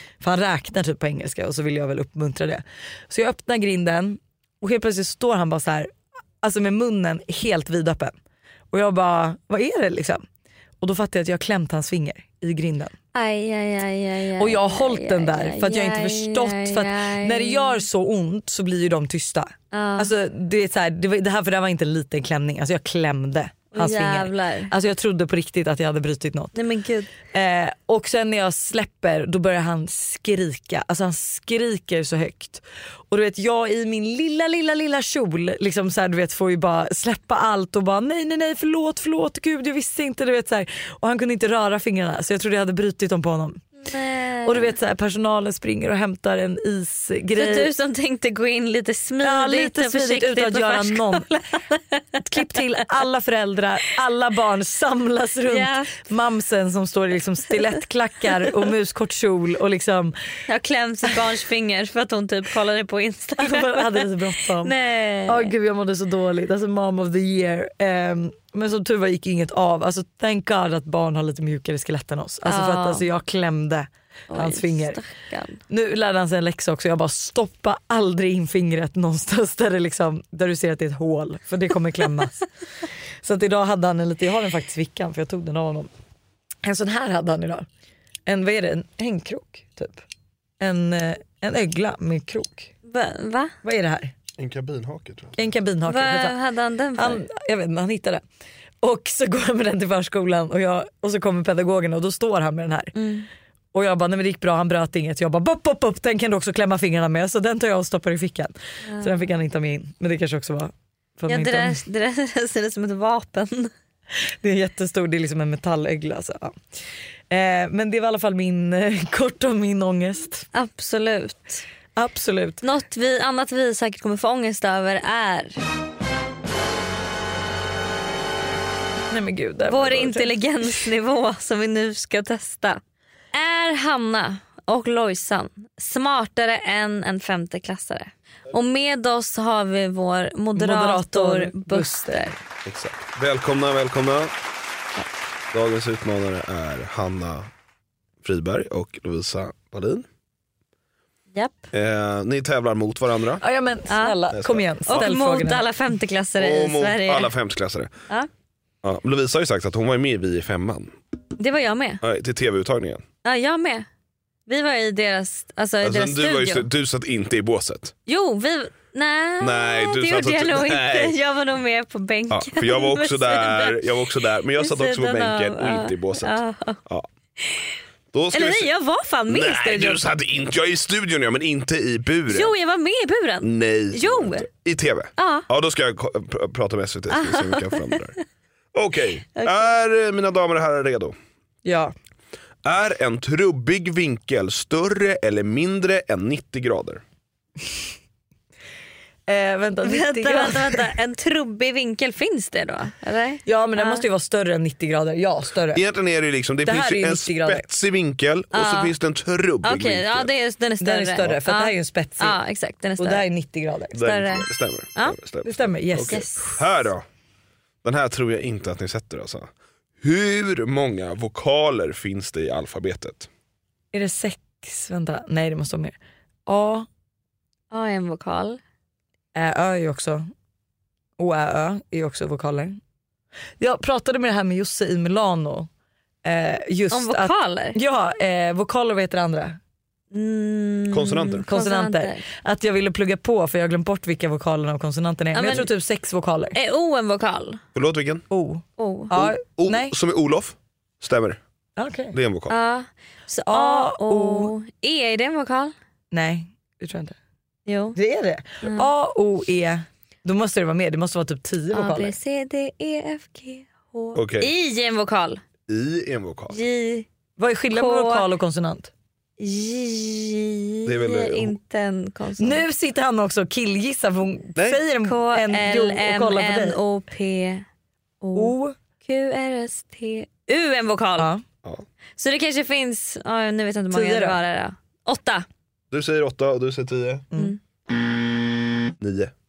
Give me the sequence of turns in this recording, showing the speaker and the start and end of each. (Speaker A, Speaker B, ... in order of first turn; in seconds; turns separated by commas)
Speaker A: 0.2-5.9, Speaker A: 6.4-8.2, Speaker A: 8.7-10.2, Speaker A: 10.8-12.9, Speaker B: 13.1-17.8, Speaker A: 14.4-26.6, Speaker B: 19.7-20.1, Speaker B: 23.7-24.7, Speaker B: 26.6-27.1, Speaker A: 27.3-43.6, Speaker B: 43.8-44.7, Speaker A: 44.5-47.7, Speaker B: 47.4-52.2, Speaker A: 49.2-51.2, Speaker A: 52.2-60.2, Speaker B: 55.5-56.0, Speaker B: 60.5-64.1, Speaker A: 63.4-64.7, Speaker B: 64.6-65.5, Speaker A: 65.3-75.0, Speaker B: 72.5-73.1, Speaker B: 74.3-75.6, Speaker A: 75.7-82.5, Speaker A: 83.2-85.9, Speaker A: 86.6-87.7, Speaker A: 88.3-90.0, Speaker A: 90.6-92.7, Speaker B: 92.9-93.5, Speaker A: 93.6-94.1, Speaker C: 94.4-95.5, Speaker A: 95.4-96.3, Speaker B: 95.8-97.2, Speaker A: 97.0-98.2, Speaker A: 98.8-103.0, Speaker B: 103.0-103.3, Speaker A: 103.7-111.8, Speaker B: 108.9-109.1, Speaker B: 111.3-113.7, Speaker A: 114.4-116.5, Speaker A: 117.3-120.5, Speaker B: 120.5-121.7, Speaker A: 122.0-122.6, Speaker B: 122.6-125.6, Speaker A: 129.1-130.7, Speaker B: 129.7-132.8, Speaker B: 133.3-142.3, Speaker A: 140.6-142.4, Speaker C: 142.7-144.3, Speaker C: 145.5-147.5, Speaker C: 148.2-150.1, Speaker C: 151.7-153.4, Speaker A: 153.4-155.7, Speaker B: 153.9-154.2, Speaker C: 154.3-155.1, Speaker B: 154.9-157.3, Speaker C: 156.4-157.9, Speaker C: 158.8-160.9, Speaker B: 161.4-162.0, Speaker C: 162.0-163.0, Speaker B: 163.2-163.8, Speaker B: 164.5-166.7, Speaker C: 165.8-167.9, Speaker B: 168.1-176.8, Speaker C: 169.4-171.2, Speaker C: 172.3-177.1, Speaker B: 177.4-177.8, Speaker C: 178.1-178.7, Speaker B: 178.3-180.0, Speaker C: 179.3-182.5, Speaker B: 182.3-184.5, Speaker C: 183.4-188.2, Speaker B: 185.2-185.5, Speaker B: 187.1-188.2, Speaker C: 188.8-191.2, Speaker B: 189.4-189.7, Speaker A: 191.6-191.9, Speaker C: 192.7-197.0, Speaker A: 199.3-200.8, Speaker B: 199.8-204.1, Speaker A: 203.4-205.8, Speaker C: 205.7-210.3, Speaker A: 206.6-207.7, Speaker B: 208.5-208.9, Speaker B: 209.6-213.2, Speaker A: 210.8-212.4, Speaker A: 213.0-214.0, Speaker C: 213.9-217.0, Speaker B: 214.0-215.2, Speaker A: 215.4-216.5, Speaker B: 216.0-216.6, Speaker C: 217.8-219.5, Speaker C: 220.0-223.3, Speaker A: 223.9-226.9, Speaker B: 227.7-228.6, Speaker A: 229.3-230.3, Speaker A: 231.2-232.8, Speaker A: 233.6-235.7, Speaker A: 236.2-239.6, Speaker B: 236.9-237.8, Speaker B: 240.1-242.2, Speaker C: 240.9-241.5, Speaker A: 241.4-246.6, Speaker B: 245.3-245.7, Speaker B: 246.6-247.6, Speaker C: 247.8-248.2, Speaker A: 248.3-249.9, Speaker B: 248.8-249.2, Speaker C: 249.2-251.4, Speaker A: 251.8-252.2, Speaker C: 252.1-252.6, Speaker B: 252.5-255.7, Speaker A: 253.5-254.5, Speaker A: 256.1-257.2, Speaker B: 257.7-258.0, Speaker A: 257.9-262.1, Speaker B: 261.7-265.4, Speaker C: 264.1-264.5, Speaker C: 265.7-266.6, Speaker B: 266.5-267.1, Speaker A: 267.4-268.9, Speaker B: 267.7-268.3, Speaker B: 269.4-272.6, Speaker C: 270.9-271.6, Speaker A: 272.4-276.8, Speaker C: 274.6-274.8, Speaker B: 275.0-277.6, Speaker B: 278.2-278.5, Speaker A: 278.4-278.8, Speaker B: 279.1-281.3, Speaker A: 281.2-281.4, Speaker B: 282.2-285.4, Speaker A: 283.9-284.4, Speaker C: 285.9-287.3, Speaker C: 289.0-289.3